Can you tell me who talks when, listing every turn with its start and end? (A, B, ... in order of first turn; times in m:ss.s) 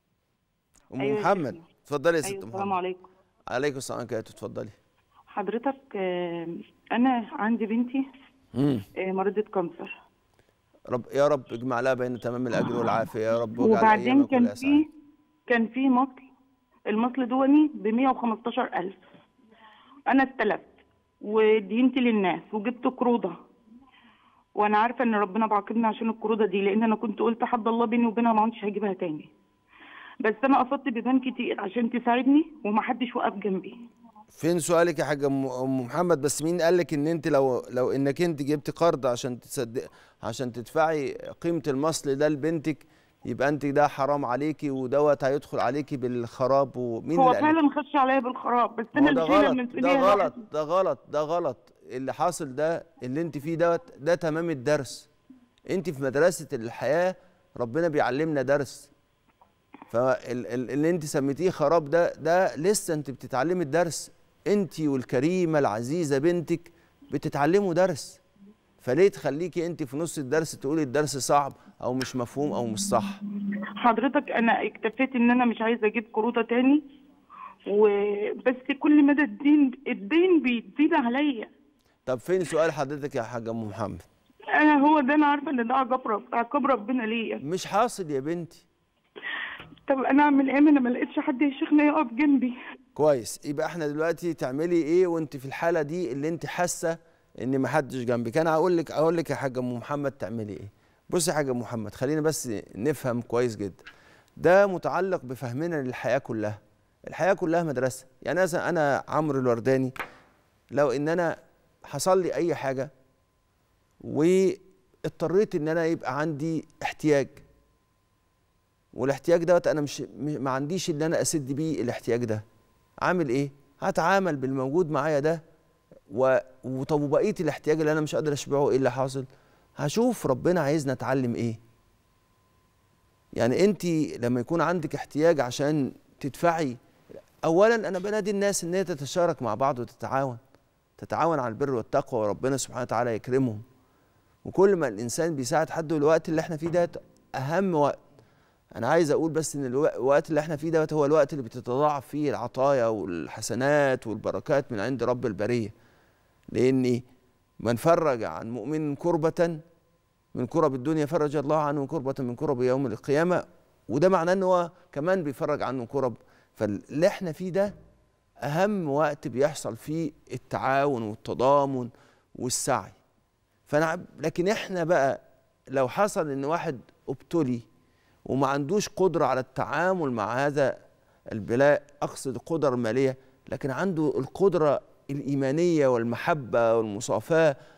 0:00.9-0:02.8 A
0:01.0-0:01.6 B
0:02.2-0:03.1 B
0:03.5-0:04.8 A
0:05.3-0:08.0 B
0:08.5-0:08.8 A
0:08.9-0:10.0 B
0:10.9-0:14.8 A
0:13.6-0:14.8 B
0:15.5-0:16.3 B
0:16.9-0:19.0 B
0:20.1-0:20.7 B
0:21.2-0:23.4 B
0:24.6-0:29.3 B
0:30.2-0:33.8 B
0:34.3-0:47.5 A
0:47.1-0:50.3 B
0:48.9-0:55.1 A
0:55.7-0:58.9 A
0:59.9-1:08.2 A
1:08.8-1:13.2 A
1:13.8-1:16.8 B
1:17.7-1:21.5 B
1:22.0-1:24.0 A
1:24.5-1:27.4 B
1:27.4-1:28.6 A
1:29.9-1:32.5 B
1:33.0-1:43.8 A
1:44.4-1:49.9 A
1:50.7-1:51.3 A
1:51.9-1:52.9 A
1:54.0-1:57.4 A
1:58.9-2:02.4 A
2:03.0-2:05.4 A
2:06.1-2:09.3 A
2:09.8-2:11.6 A
2:13.4-2:16.8 A
2:17.4-2:20.4 A
2:21.0-2:23.6 A
2:24.4-2:28.0 A
2:28.8-2:35.7 A
2:36.5-2:37.0 A
2:37.6-2:39.6 A
2:40.3-2:47.7 A
2:48.4-2:53.0 A
2:53.7-2:55.2 A
2:55.7-2:57.6 A
2:58.2-3:00.7 A
3:01.3-3:07.5 A